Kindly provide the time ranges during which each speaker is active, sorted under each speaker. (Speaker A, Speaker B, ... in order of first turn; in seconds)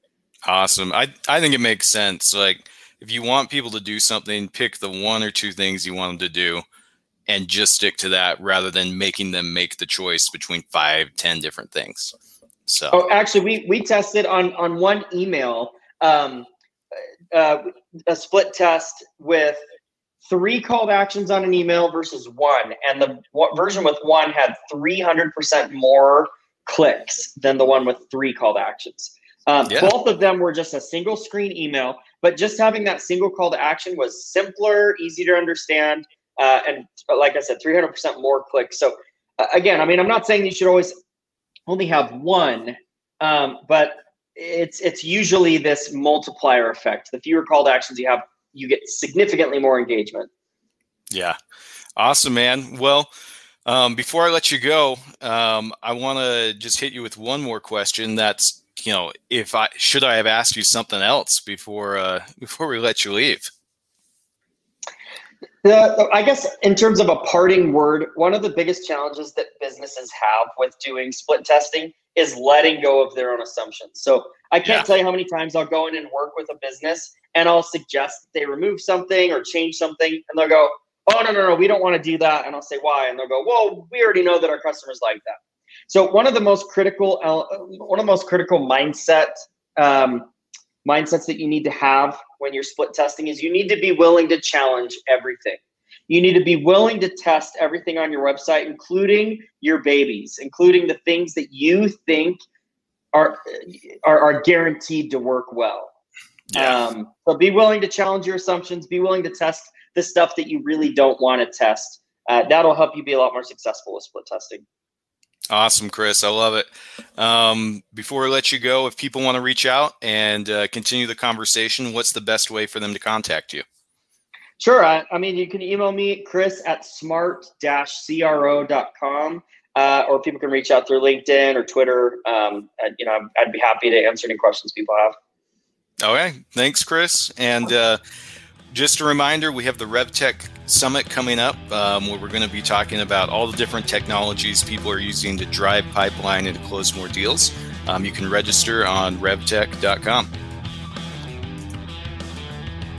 Speaker A: 0.5-6.6, 7.3-12.1, 12.7-13.0, 29.7-29.9, 51.1-51.4, 52.0-53.1, 53.6-63.5, 106.5-106.8, 115.5-123.6, 136.0-138.0, 138.7-150.3
Speaker B: 12.9-16.5, 17.3-19.6, 20.2-40.9, 41.7-50.3, 65.6-90.3, 90.8-102.4, 103.1-105.9, 106.5-114.6, 124.6-135.1